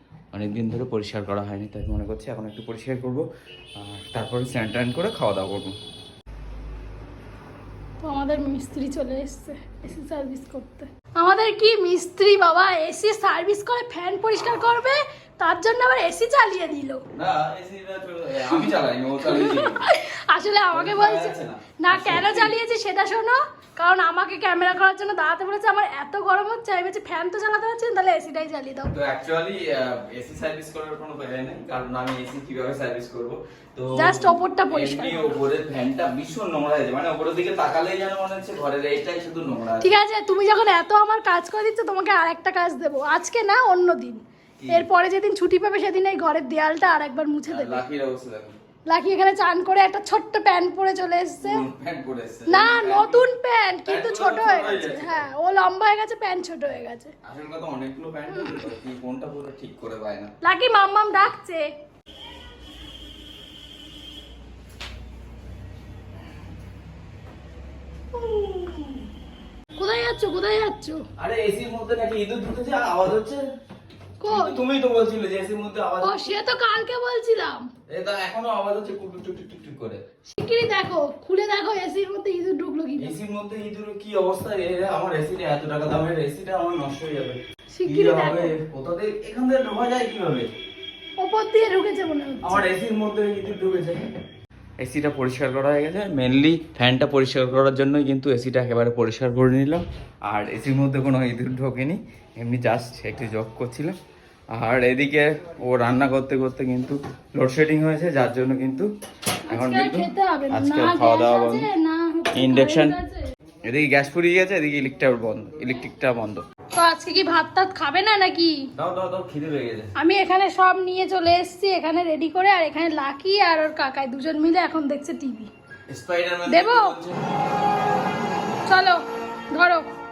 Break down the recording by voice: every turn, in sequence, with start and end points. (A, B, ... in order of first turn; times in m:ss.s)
0:00.3-0:03.2 A
0:03.8-0:05.8 A
0:08.0-0:17.0 B
0:17.1-0:19.8 A
0:19.2-0:28.9 B
0:20.7-0:22.6 A
0:28.9-0:39.9 A
0:34.0-0:35.4 B
0:39.8-0:47.8 B
0:44.6-0:44.9 A
0:47.5-0:48.6 A
0:48.9-0:51.6 B
0:51.4-0:53.3 A
0:52.5-0:57.1 B
0:53.8-0:55.2 A
0:57.2-1:00.3 A
0:58.3-0:58.6 B
1:00.4-1:01.7 B
1:08.3-1:08.7 B
1:09.8-1:11.0 B
1:11.2-1:13.4 A
1:14.2-1:14.6 B
1:14.3-1:16.4 A
1:16.0-1:17.7 B
1:17.9-1:20.0 A
1:20.3-1:23.2 B
1:23.0-1:30.5 A
1:27.7-1:28.5 B
1:31.2-1:32.7 B
1:32.4-1:34.0 A
1:34.8-1:44.0 A
1:44.6-1:48.9 A
1:49.5-1:53.3 B
1:49.5-1:51.7 A
1:52.3-1:53.0 A
1:53.7-1:56.4 A
1:56.7-1:58.6 B
1:58.8-1:59.9 A
2:00.0-2:05.5 B
2:05.9-2:07.2 A
2:06.5-2:07.0 B
2:08.7-2:09.9 B